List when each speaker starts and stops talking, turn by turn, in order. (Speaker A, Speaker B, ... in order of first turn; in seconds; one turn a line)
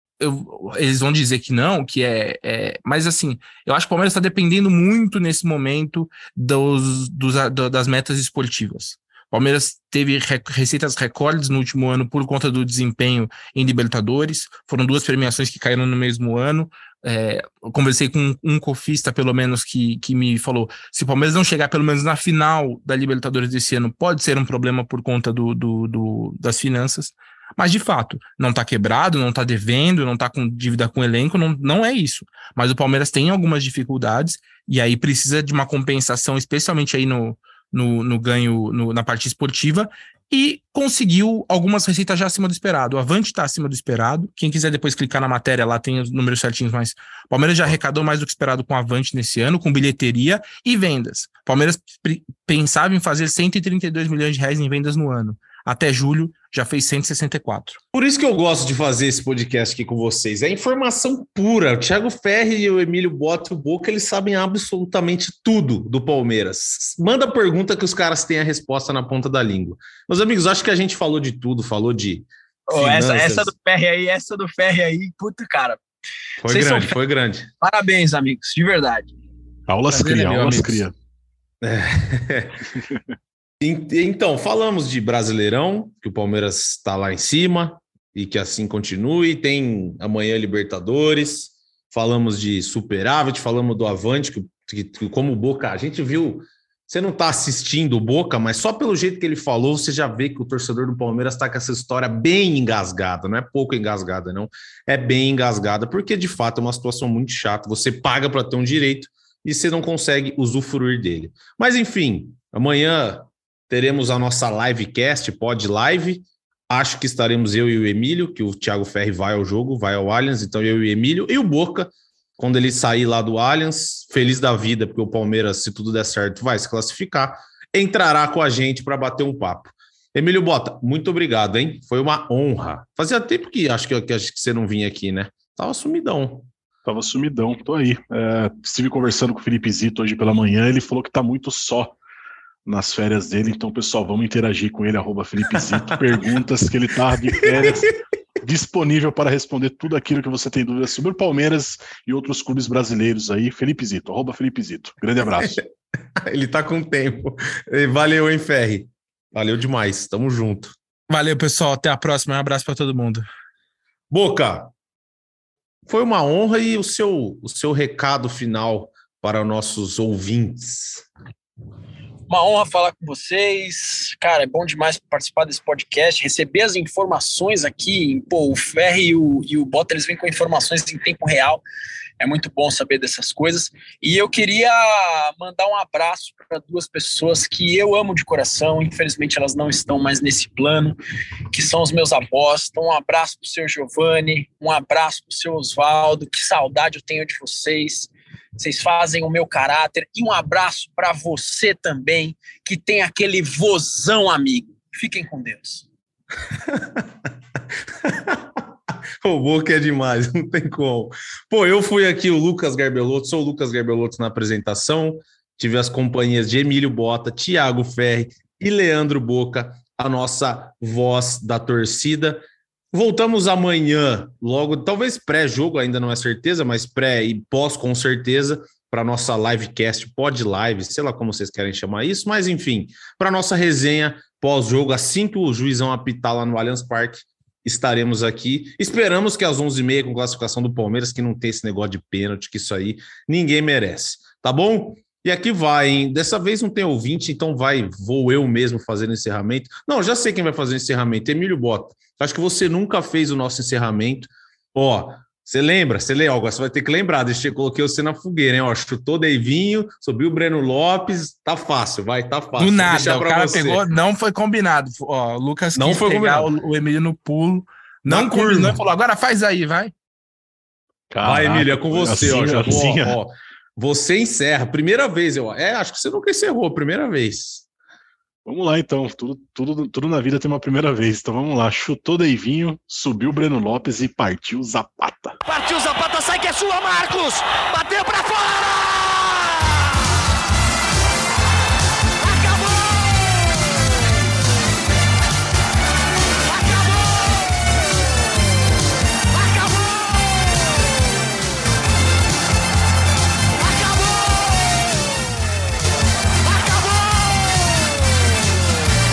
Speaker A: 0.2-57.8
Speaker B: 57.9-73.5
Speaker C: 72.7-75.8
Speaker B: 76.4-77.5
Speaker C: 76.4-77.0
Speaker C: 77.6-79.1
Speaker D: 79.7-80.9
Speaker C: 79.9-80.8
Speaker B: 81.6-82.6
Speaker B: 83.6-136.5
Speaker D: 136.8-142.0
Speaker D: 142.7-155.6
Speaker B: 147.4-147.9
Speaker B: 155.4-155.7
Speaker B: 156.2-160.8
Speaker A: 161.1-163.2
Speaker B: 164.1-164.7
Speaker B: 165.9-171.1
Speaker C: 172.3-181.6
Speaker C: 182.2-191.0
Speaker C: 191.5-205.9
Speaker B: 206.6-207.1
Speaker B: 208.0-208.6
Speaker B: 209.2-263.8
Speaker A: 262.6-269.9
Speaker B: 265.8-266.5
Speaker B: 268.1-268.8
Speaker D: 271.1-273.2
Speaker B: 271.2-277.6
Speaker D: 278.4-285.4
Speaker E: 285.5-290.0
Speaker E: 292.2-294.2
Speaker E: 296.4-297.8
Speaker E: 299.3-301.4
Speaker E: 303.5-305.2
Speaker E: 306.4-308.6